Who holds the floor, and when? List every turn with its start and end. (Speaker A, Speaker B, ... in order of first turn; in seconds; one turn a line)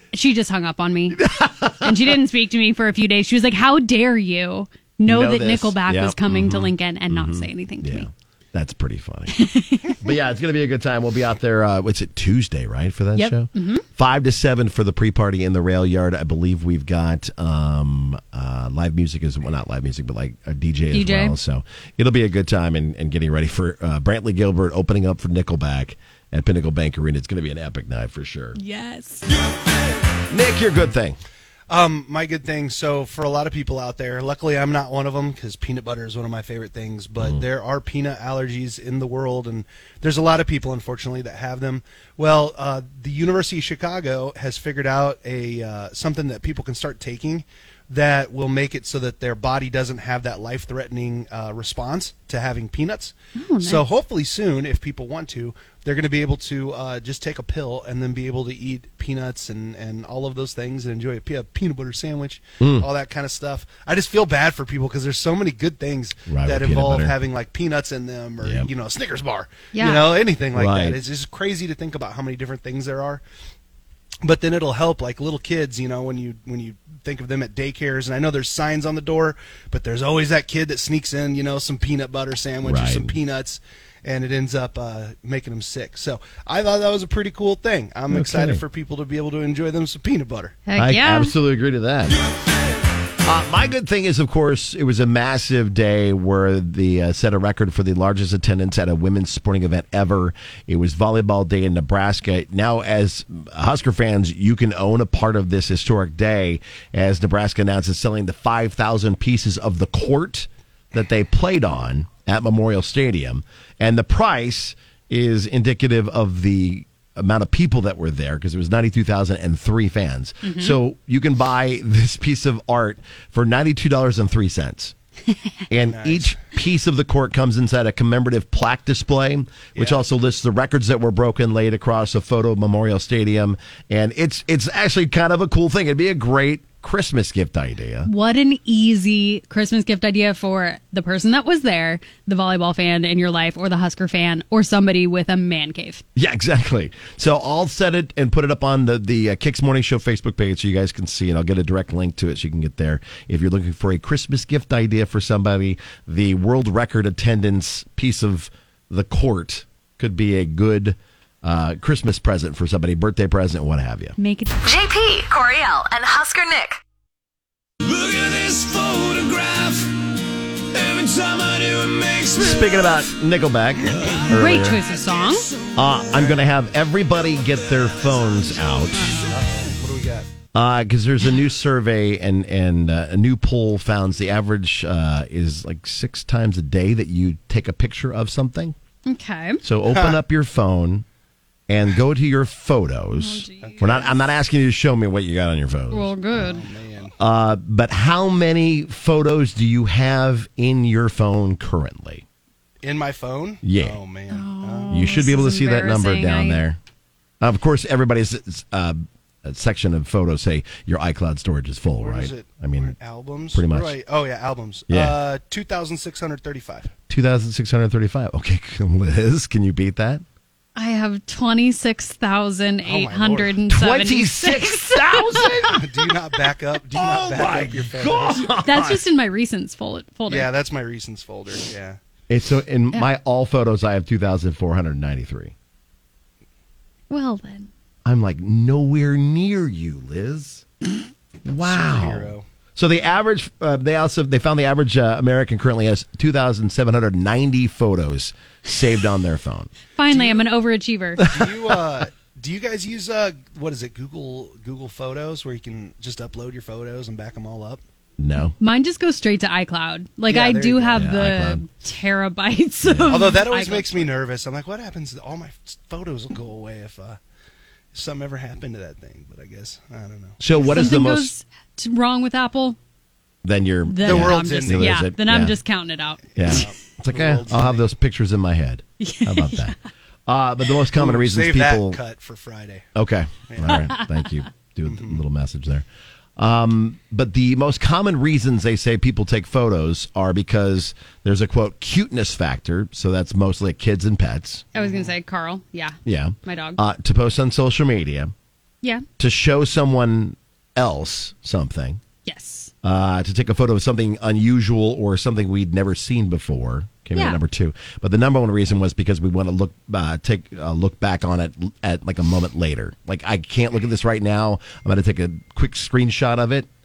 Speaker A: 0.1-1.3
Speaker B: 1.1-2.1
Speaker A: 1.8-8.1
Speaker B: 5.0-9.4
Speaker A: 9.3-10.0
Speaker B: 10.0-28.6
Speaker A: 13.2-13.8
Speaker A: 20.9-21.4
Speaker A: 28.5-29.2
Speaker B: 30.3-31.2
Speaker C: 31.7-73.2
Speaker A: 53.4-53.8
Speaker B: 62.6-62.9
Speaker B: 66.3-67.1
Speaker B: 68.4-68.7
Speaker A: 69.7-70.1
Speaker B: 70.5-71.0
Speaker C: 74.2-90.6
Speaker B: 82.6-83.1
Speaker B: 88.1-88.6
Speaker A: 90.7-91.3
Speaker B: 90.8-92.2
Speaker B: 93.2-124.9
Speaker A: 120.4-120.8
Speaker B: 125.7-138.1
Speaker C: 125.8-126.4
Speaker C: 129.7-130.0
Speaker A: 138.0-146.0
Speaker B: 146.1-164.1
Speaker A: 164.2-164.5
Speaker D: 164.6-166.8
Speaker E: 167.8-169.9
Speaker E: 170.7-172.7
Speaker B: 172.3-174.8
Speaker A: 174.3-175.5
Speaker B: 175.7-179.1
Speaker A: 178.9-179.3
Speaker C: 179.3-180.3
Speaker B: 180.5-188.7
Speaker A: 189.1-189.6
Speaker B: 189.6-191.0
Speaker C: 189.9-190.2
Speaker B: 191.7-196.1
Speaker A: 193.2-194.0
Speaker C: 193.6-194.1
Speaker A: 195.9-196.6
Speaker C: 196.3-197.1
Speaker B: 197.2-202.2
Speaker C: 202.8-205.1
Speaker B: 203.6-204.0
Speaker A: 204.3-206.6
Speaker B: 204.9-206.8
Speaker B: 207.4-212.9
Speaker C: 212.0-216.9
Speaker B: 213.5-214.0
Speaker B: 214.9-215.2
Speaker B: 217.1-220.2
Speaker A: 220.7-225.6
Speaker C: 222.8-223.6
Speaker B: 223.7-225.9
Speaker C: 225.7-228.7
Speaker B: 226.9-229.0
Speaker A: 228.6-230.5
Speaker C: 230.3-232.0
Speaker B: 232.3-235.5
Speaker A: 237.1-237.7
Speaker B: 238.0-240.6
Speaker B: 241.4-249.7
Speaker C: 241.6-242.4
Speaker A: 249.9-251.3
Speaker C: 250.1-250.4
Speaker B: 251.2-251.5
Speaker C: 251.2-257.8
Speaker B: 258.2-258.5
Speaker A: 258.6-264.1
Speaker C: 260.3-261.1
Speaker B: 260.9-261.6
Speaker B: 262.8-263.3
Speaker C: 263.1-267.2
Speaker C: 267.9-270.4
Speaker B: 270.4-271.3
Speaker A: 270.6-272.8
Speaker B: 273.4-275.6
Speaker A: 273.9-276.2
Speaker C: 274.0-275.0
Speaker B: 276.4-279.8
Speaker C: 276.4-277.9
Speaker A: 279.0-279.7
Speaker B: 280.3-282.0
Speaker C: 280.9-282.9
Speaker B: 282.9-285.8
Speaker C: 283.5-283.9
Speaker A: 283.7-284.1
Speaker C: 284.8-285.2
Speaker B: 286.4-294.7
Speaker C: 294.7-295.1
Speaker A: 294.7-296.8
Speaker B: 296.0-298.3
Speaker B: 299.2-302.0
Speaker A: 302.2-302.7
Speaker B: 302.8-316.7
Speaker A: 307.1-307.4